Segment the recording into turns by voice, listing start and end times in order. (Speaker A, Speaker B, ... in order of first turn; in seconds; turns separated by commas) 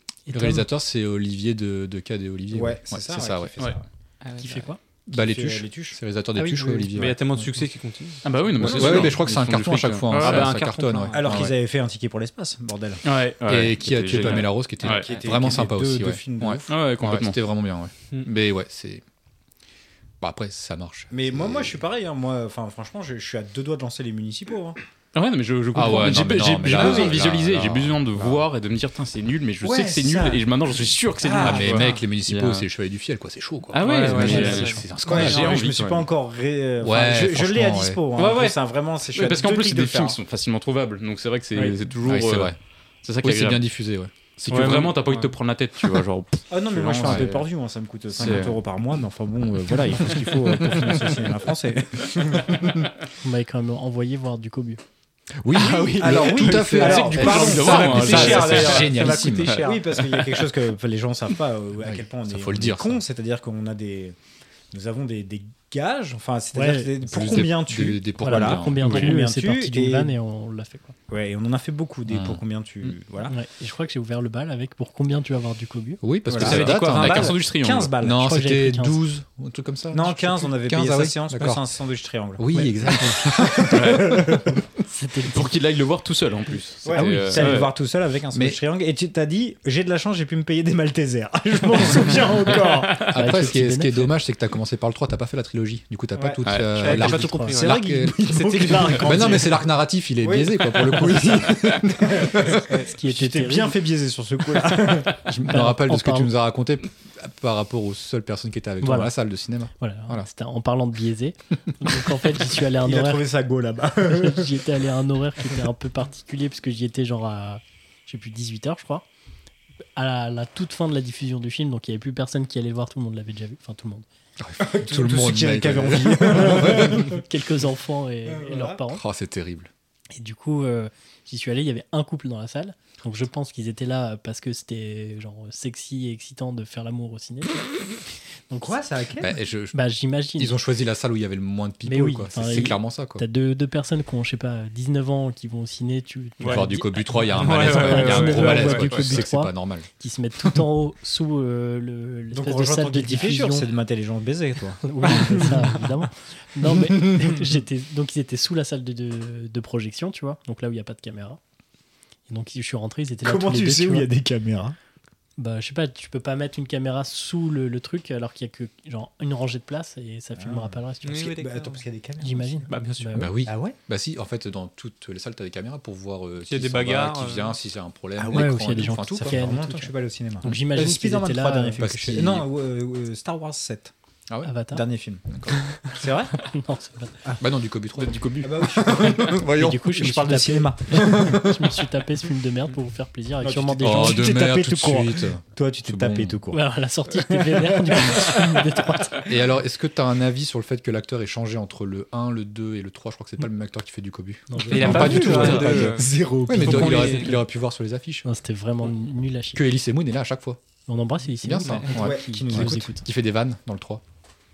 Speaker A: 0.3-0.7, Speaker B: 0.3-3.5, Speaker C: 2.5-3.8, Speaker D: 4.2-4.7, Speaker A: 4.4-4.8, Speaker B: 5.1-7.3, Speaker C: 5.1-6.0, Speaker A: 6.3-6.8, Speaker D: 6.6-9.2, Speaker E: 8.2-10.6, Speaker B: 8.6-11.5, Speaker D: 10.1-11.4, Speaker C: 11.1-13.0, Speaker E: 13.0-15.1, Speaker B: 13.5-19.0, Speaker C: 14.8-16.7, Speaker E: 16.7-17.4, Speaker B: 20.2-21.8, Speaker C: 21.1-24.8, Speaker E: 25.1-32.7, Speaker B: 25.7-28.4, Speaker D: 26.7-27.2, Speaker C: 29.6-30.4, Speaker C: 31.2-31.9, Speaker B: 31.4-35.7, Speaker E: 33.7-36.0, Speaker D: 33.8-34.9, Speaker A: 34.3-34.6, Speaker C: 35.0-40.2, Speaker B: 36.8-38.0, Speaker E: 38.2-38.6, Speaker E: 39.1-43.6, Speaker B: 42.1-42.6, Speaker B: 43.2-44.6, Speaker E: 44.4-47.4, Speaker D: 44.5-45.0, Speaker C: 46.5-52.7, Speaker B: 47.0-47.4, Speaker B: 48.1-48.5, Speaker E: 48.2-48.5, Speaker B: 49.9-51.2, Speaker B: 52.5-52.9, Speaker A: 53.2-54.8, Speaker B: 55.4-59.6, Speaker D: 55.5-59.9, Speaker C: 56.0-58.4, Speaker E: 56.8-60.1, Speaker C: 59.6-64.2, Speaker B: 61.8-63.0, Speaker C: 64.7-70.2, Speaker A: 66.5-66.9, Speaker B: 67.0-69.1, Speaker A: 68.2-71.0, Speaker E: 68.8-69.2, Speaker C: 71.1-73.4, Speaker B: 72.1-72.4, Speaker A: 73.3-76.0, Speaker B: 76.0-77.5, Speaker C: 76.3-78.3, Speaker E: 76.4-77.9, Speaker D: 76.4-77.3, Speaker B: 78.0-81.6, Speaker A: 78.2-79.0, Speaker C: 79.9-84.6, Speaker B: 82.4-84.1, Speaker E: 83.7-84.2, Speaker A: 84.8-85.5, Speaker E: 85.3-87.7, Speaker C: 86.8-93.1, Speaker B: 86.9-87.6, Speaker B: 88.3-88.6, Speaker E: 92.6-93.1, Speaker B: 93.1-102.6, Speaker A: 93.2-94.1, Speaker C: 96.2-99.7, Speaker E: 96.4-96.9, Speaker D: 96.7-99.5, Speaker A: 97.1-97.6, Speaker C: 100.2-105.2, Speaker A: 102.7-103.8, Speaker B: 105.2-110.3, Speaker A: 105.5-106.3, Speaker A: 108.8-109.1, Speaker A: 109.8-113.2, Speaker C: 112.8-114.7, Speaker A: 114.0-119.0, Speaker A: 120.0-124.0, Speaker B: 124.4-127.2, Speaker C: 124.6-127.2, Speaker A: 127.0-129.0, Speaker C: 128.3-128.8, Speaker B: 128.9-129.7, Speaker A: 130.1-137.7, Speaker A: 138.5-138.8, Speaker C: 138.6-139.4, Speaker B: 139.2-143.2, Speaker A: 139.7-140.6, Speaker A: 141.8-153.7, Speaker D: 146.4-146.7, Speaker B: 146.4-149.9, Speaker D: 147.3-149.2, Speaker C: 152.3-155.6, Speaker A: 154.8-161.4, Speaker D: 155.2-155.6, Speaker A: 162.3-164.1, Speaker C: 163.2-164.8, Speaker A: 165.4-171.4, Speaker C: 170.4-172.7, Speaker D: 171.0-171.8, Speaker A: 172.2-173.3, Speaker D: 172.7-173.2, Speaker B: 173.2-179.4, Speaker C: 173.4-173.8, Speaker D: 176.5-177.6, Speaker C: 178.2-183.9, Speaker A: 178.3-181.8, Speaker B: 181.8-182.5, Speaker A: 184.4-184.8, Speaker C: 184.7-186.4, Speaker A: 186.4-187.2, Speaker B: 187.4-190.3, Speaker E: 188.0-188.5, Speaker C: 188.4-191.5, Speaker A: 189.5-194.3, Speaker B: 191.0-191.5, Speaker C: 193.4-198.7, Speaker B: 193.8-196.4, Speaker A: 196.5-199.3, Speaker B: 199.3-208.3, Speaker A: 204.5-205.5, Speaker D: 204.7-207.4, Speaker C: 204.8-207.3, Speaker A: 208.2-209.7, Speaker B: 209.6-210.6, Speaker A: 210.9-213.1, Speaker B: 211.4-214.0, Speaker D: 211.6-211.9, Speaker C: 211.9-212.9